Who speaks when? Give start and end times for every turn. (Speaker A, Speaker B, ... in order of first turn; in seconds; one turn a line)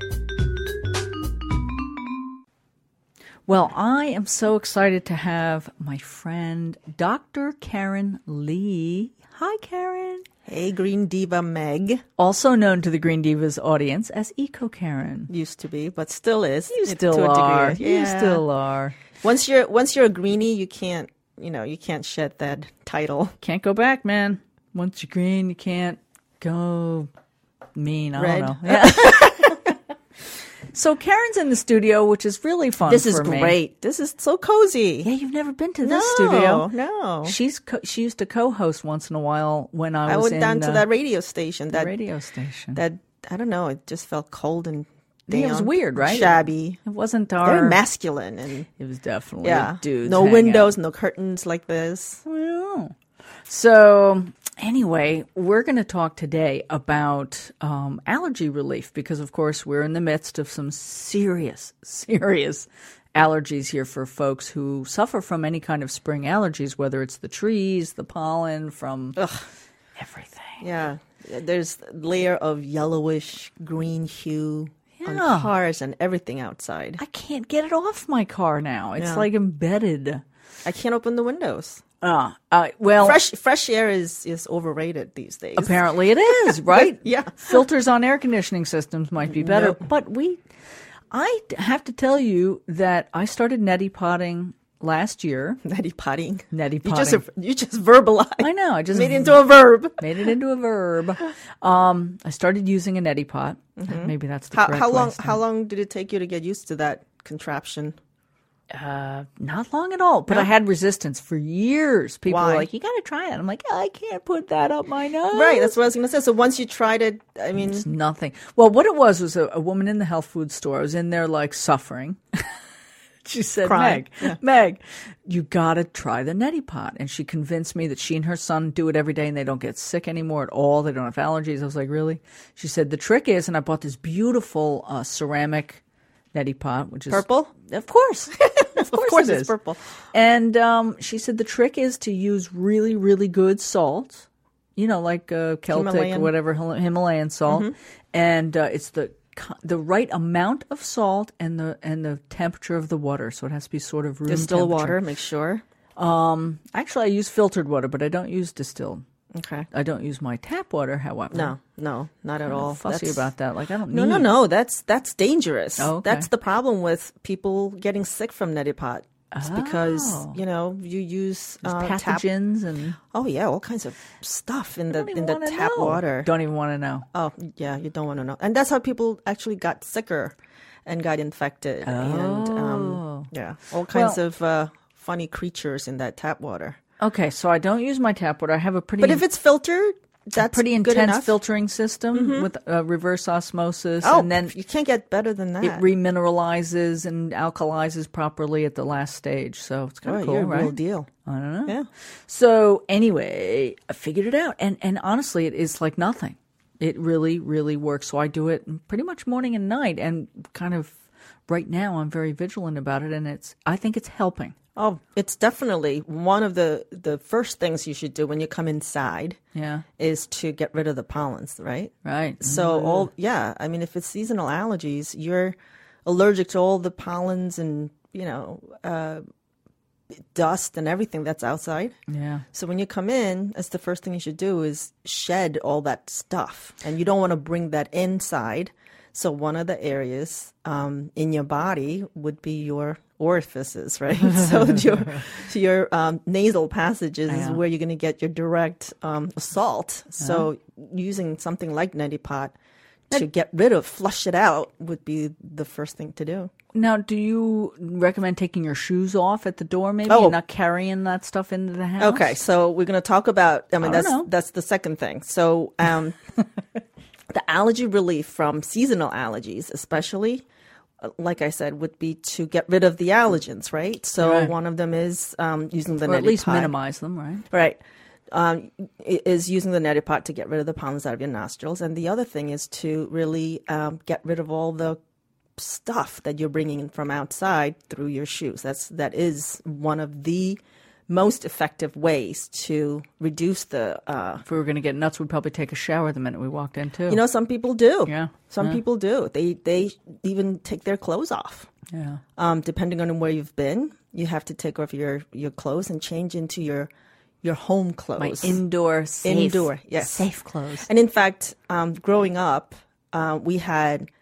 Speaker A: 3.5-10.2
Speaker B: 10.4-12.0
Speaker A: 12.2-15.3
Speaker B: 15.3-18.4
Speaker A: 16.7-19.0
Speaker B: 19.2-23.3
Speaker A: 23.4-27.1
Speaker A: 27.8-29.7
Speaker B: 28.2-29.7
Speaker A: 30.7-33.6
Speaker B: 32.8-35.1
Speaker A: 35.0-36.7
Speaker B: 35.8-37.4
Speaker A: 37.2-40.9
Speaker B: 40.0-41.9
Speaker A: 41.7-42.8
Speaker B: 42.7-46.8
Speaker A: 45.3-47.8
Speaker B: 47.4-48.7
Speaker A: 48.8-50.7
Speaker B: 49.4-52.2
Speaker A: 52.2-52.9
Speaker A: 53.5-69.2
Speaker B: 69.2-69.5
Speaker A: 70.0-70.6
Speaker B: 70.6-77.0
Speaker A: 75.0-75.5
Speaker A: 77.0-80.2
Speaker B: 79.0-79.3
Speaker B: 80.6-81.8
Speaker A: 82.0-83.2
Speaker B: 83.0-87.7
Speaker A: 85.6-90.4
Speaker B: 89.2-89.9
Speaker A: 91.1-95.6
Speaker B: 95.6-100.0
Speaker A: 96.5-97.2
Speaker A: 98.4-99.4
Speaker A: 100.0-105.4
Speaker B: 103.8-108.0
Speaker A: 108.7-115.8
Speaker B: 112.3-112.7
Speaker B: 115.3-117.8
Speaker A: 117.6-122.6
Speaker A: 123.2-135.8
Speaker B: 123.6-124.4
Speaker A: 136.3-139.5
Speaker B: 137.1-137.5
Speaker B: 138.6-139.8
Speaker A: 140.1-155.0
Speaker B: 145.7-146.3
Speaker B: 147.5-147.7
Speaker B: 154.3-155.6
Speaker A: 156.0-159.0
Speaker B: 159.3-159.7
Speaker A: 159.7-161.5
Speaker B: 161.3-163.3
Speaker A: 162.4-164.3
Speaker B: 163.9-172.2
Speaker A: 165.8-166.3
Speaker A: 169.3-170.4
Speaker A: 171.6-173.0
Speaker B: 173.1-176.3
Speaker A: 174.9-177.1
Speaker B: 177.1-180.3
Speaker B: 180.8-186.8
Speaker A: 181.8-183.3
Speaker A: 183.9-184.2
Speaker A: 187.0-189.2
Speaker B: 189.0-191.4
Speaker A: 190.4-194.6
Speaker B: 192.1-192.5
Speaker B: 194.0-195.9
Speaker A: 195.6-201.8
Speaker B: 200.0-201.1
Speaker A: 202.3-210.9
Speaker A: 211.5-214.5
Speaker B: 214.8-219.4
Speaker A: 219.5-219.8
Speaker B: 220.0-229.2
Speaker A: 222.0-223.1
Speaker B: 230.3-231.9
Speaker A: 232.1-232.4
Speaker B: 232.5-252.5
Speaker A: 247.3-247.6
Speaker A: 250.2-250.4
Speaker B: 253.1-256.5
Speaker A: 256.7-262.4
Speaker B: 260.1-260.4
Speaker B: 262.0-266.2
Speaker A: 263.8-264.3
Speaker B: 267.3-270.4
Speaker B: 271.0-276.7
Speaker A: 274.2-274.5
Speaker A: 276.0-277.4
Speaker B: 277.5-277.8
Speaker B: 278.3-285.0
Speaker B: 285.6-294.4
Speaker A: 294.4-297.2
Speaker B: 297.1-301.7
Speaker A: 298.1-298.8
Speaker A: 301.9-302.2
Speaker B: 302.4-306.9
Speaker B: 307.4-308.6
Speaker A: 308.2-310.9
Speaker B: 309.2-310.3
Speaker B: 310.8-314.1